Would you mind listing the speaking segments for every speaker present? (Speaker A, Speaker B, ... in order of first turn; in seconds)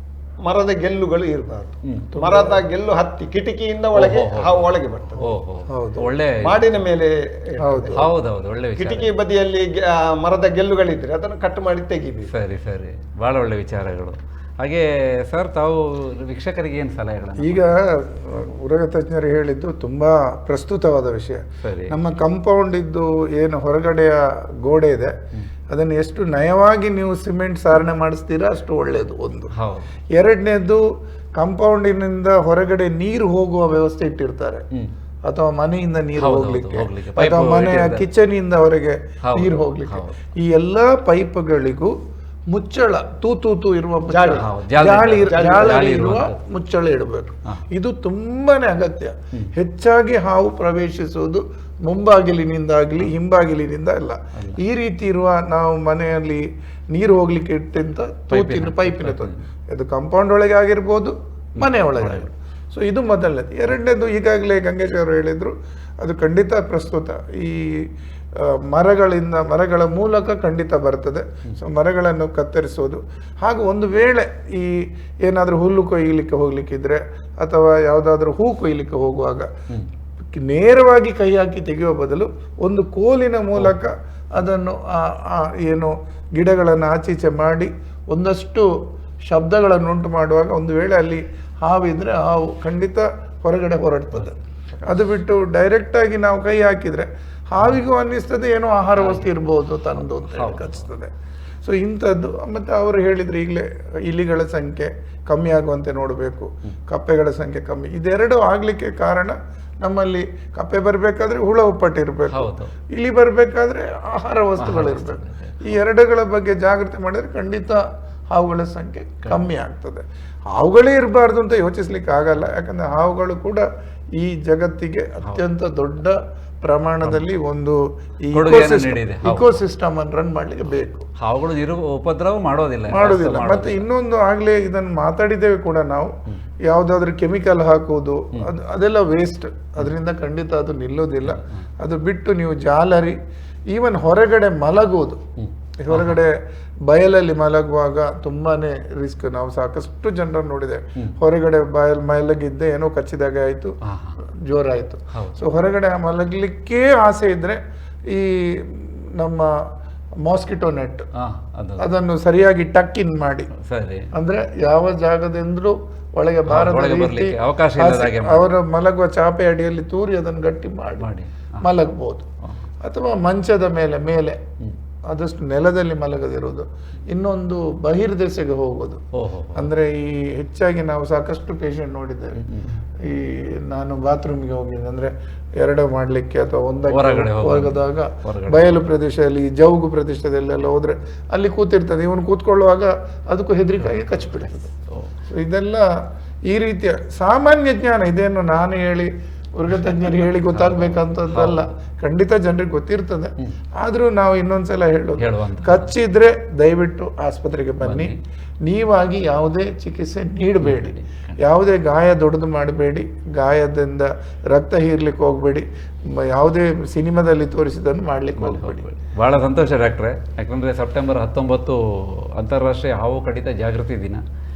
Speaker A: 0.4-5.3, 6.4-8.0, 8.8-12.3, 44.1-45.9
Speaker B: 1.8-2.1, 3.9-6.8, 7.9-9.1, 12.3-17.6, 21.6-21.9, 29.5-29.9, 36.2-38.0, 39.2-40.2, 44.3-46.3, 58.3-59.4, 61.6-62.3, 94.1-94.9, 99.0-99.3, 100.3-100.9, 112.3-112.7, 114.6-115.8, 127.0-127.3, 128.3-129.6, 131.2-133.8, 145.4-146.2, 153.8-154.2, 155.1-155.4, 161.1-161.9, 163.6-164.1, 166.5-168.5, 171.0-171.7, 179.1-179.7, 182.4-182.8, 186.9-188.8, 193.8-194.1, 194.8-195.1, 200.5-201.7, 205.2-205.9, 207.8-208.2, 210.6-211.4, 218.4-224.2
Speaker C: 2.1-2.6, 5.7-6.1, 7.6-8.0, 17.4-25.1, 25.7-29.5, 30.1-30.8, 31.4-34.6, 35.2-41.9, 42.5-79.5, 80.3-88.7, 89.3-101.1, 101.6-120.0, 120.5-123.6, 124.2-131.0, 132.9-136.1, 136.6-143.2, 143.7-145.2, 145.8-153.8, 154.4-157.6, 158.1-159.6, 160.2-161.1, 161.8-163.5, 164.1-171.0, 171.6-172.2, 172.8-174.4, 175.1-179.0, 179.5-182.4, 183.0-194.7, 195.3-195.9, 196.5-208.1, 208.6-218.9